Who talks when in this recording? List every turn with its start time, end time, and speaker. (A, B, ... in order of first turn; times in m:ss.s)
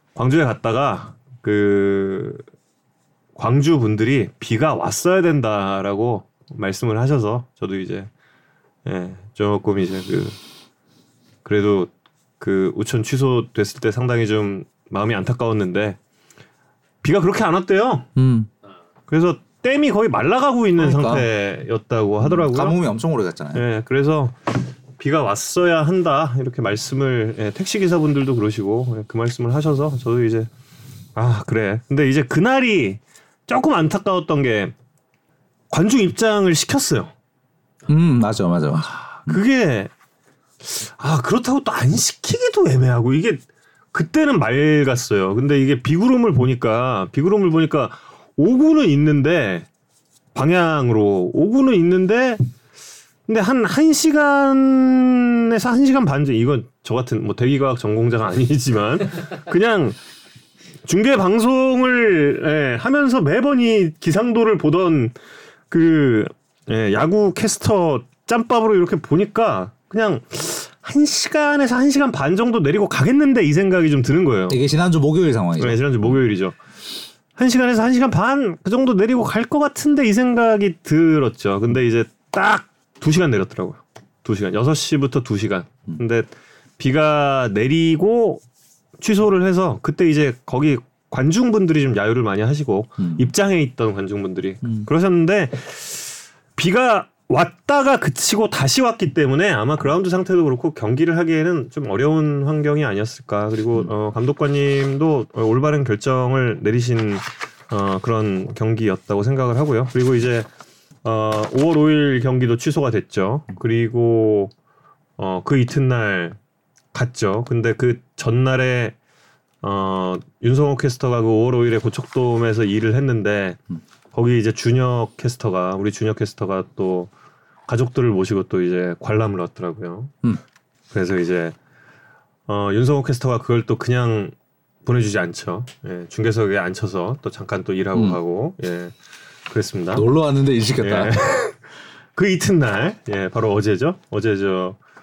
0:00.2-0:02.4 A
0:03.4-0:08.1 A
0:08.8-0:10.4 A
0:11.4-0:16.0 A
0:17.0-0:18.1 A
0:18.2-0:18.5 B
0:19.1-0:22.8 A
0:20.8-0:21.3 B
0:22.2-0:23.6 B
0:23.5-0:30.5 A
0:31.2-0:34.7 A
0:35.7-0:37.1 A
0:37.9-0:39.4 B
0:38.8-0:39.9 A
0:40.6-0:43.4 A
0:43.9-0:49.7 A
0:50.4-0:52.4 A
0:53.3-1:00.0 A
1:00.8-1:05.1 A
1:05.7-1:14.6 A
1:14.5-1:15.8 B
1:15.6-1:16.6 A
1:17.4-1:28.4 A
1:29.0-1:50.5 A
1:33.0-1:33.3 B
1:34.6-1:34.9 B
1:51.0-1:54.5 A
1:55.2-1:56.4 A
1:56.9-1:59.0 A
1:59.6-2:03.6 A
2:04.1-2:07.1 A
2:07.7-2:10.1 A
2:10.9-2:11.6 A
2:12.5-2:14.3 A
2:14.8-2:18.9 A
2:17.9-2:18.2 B
2:19.5-2:20.1 A
2:19.9-2:21.2 B
2:20.8-2:21.6 A
2:22.2-2:24.8 A